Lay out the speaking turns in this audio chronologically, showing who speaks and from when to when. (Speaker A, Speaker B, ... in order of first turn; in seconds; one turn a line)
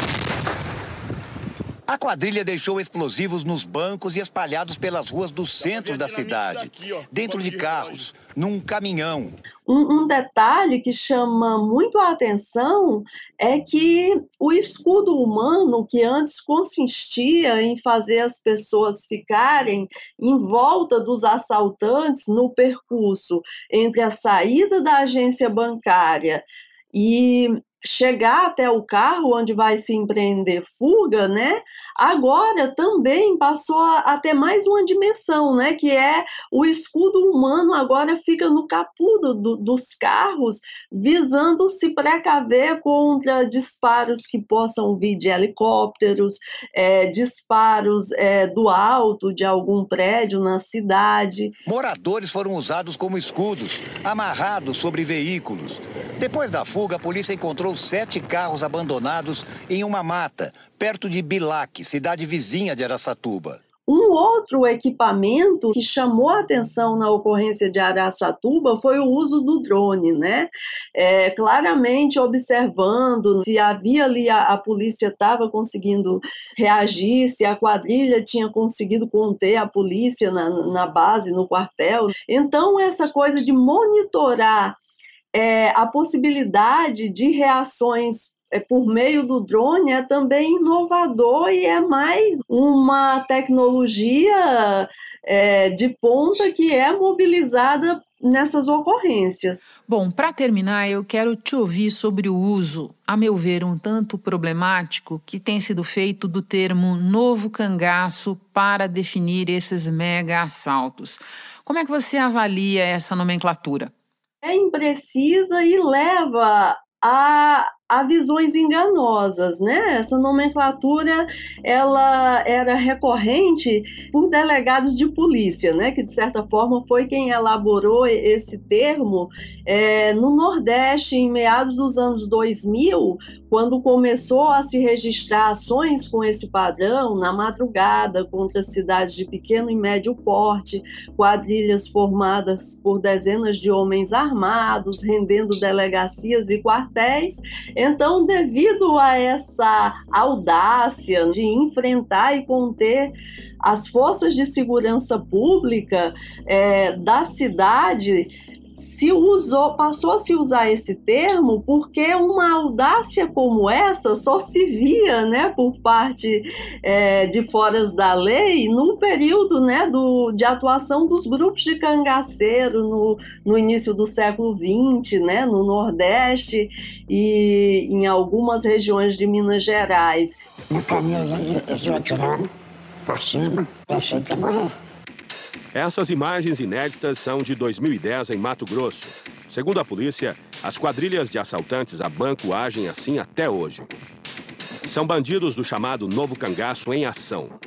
Speaker A: 1.9-9.4
Speaker B: 9.7-51.5
Speaker A: 51.6-63.6
Speaker B: 63.9-84.8
Speaker B: 85.3-99.7
Speaker C: 99.9-113.9
Speaker B: 114.4-153.1
Speaker B: 153.6-180.4
Speaker D: 180.7-182.5
Speaker D: 183.1-184.7
Speaker E: 185.7-193.9
Speaker E: 194.8-197.5